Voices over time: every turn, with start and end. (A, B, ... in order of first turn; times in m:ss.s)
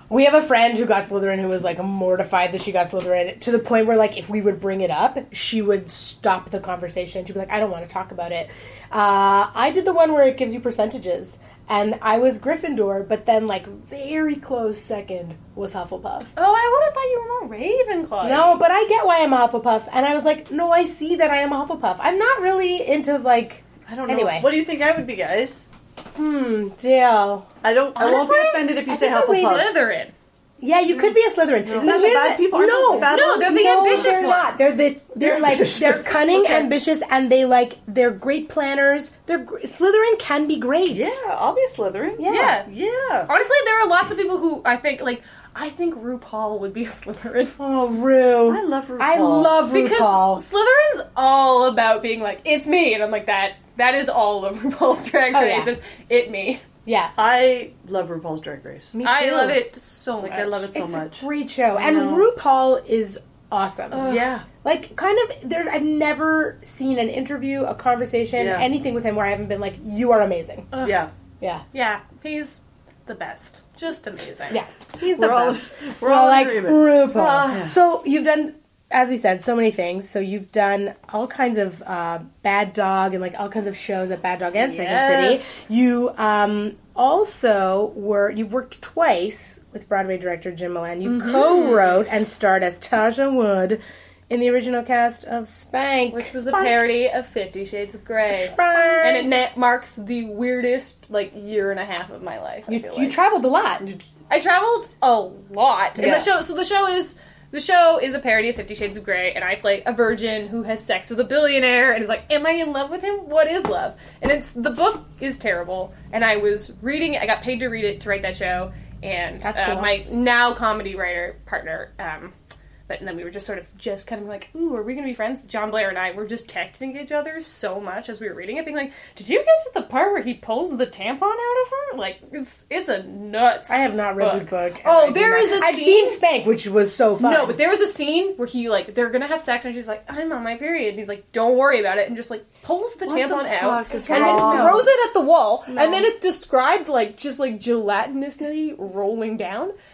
0:00.1-0:16.3 A
0:16.4-0:18.6 B
0:18.2-0:24.5 A
0:23.9-0:25.7 C
0:26.2-0:27.5 A
0:27.6-0:29.8 C
0:28.0-0:30.1 B
0:28.9-0:29.5 A
0:30.6-0:41.2 A
0:31.7-0:34.2 C
0:32.8-0:34.8 B
0:35.2-0:36.7 C
0:40.9-0:43.3 C
0:42.2-0:42.6 A
0:42.3-0:42.7 B
0:43.3-0:47.6 B
0:47.6-0:50.4 A
0:48.5-0:49.6 C
0:49.7-0:56.6 B
0:55.3-0:55.7 A
0:56.8-0:57.1 A
0:57.2-0:59.0 C
0:58.9-0:59.6 A
0:59.0-1:00.7 B
1:00.2-1:02.3 C
1:00.7-1:10.7 A
1:03.9-1:04.3 B
1:04.0-1:04.5 C
1:08.4-1:08.7 C
1:10.7-1:11.0 B
1:10.8-1:11.1 C
1:11.7-1:14.6 B
1:14.5-1:36.3 A
1:15.0-1:17.7 C
1:17.1-1:17.7 B
1:24.6-1:25.6 B
1:31.0-1:32.1 B
1:36.1-1:43.2 B
1:38.3-1:39.3 A
1:42.7-1:43.9 A
1:43.8-1:44.1 C
1:44.3-2:02.3 B
1:46.0-1:46.3 A
1:59.4-1:59.9 A
2:02.9-2:16.2 B
2:13.7-2:17.6 A
2:17.2-2:29.7 B
2:23.1-2:24.9 C
2:24.0-2:24.9 A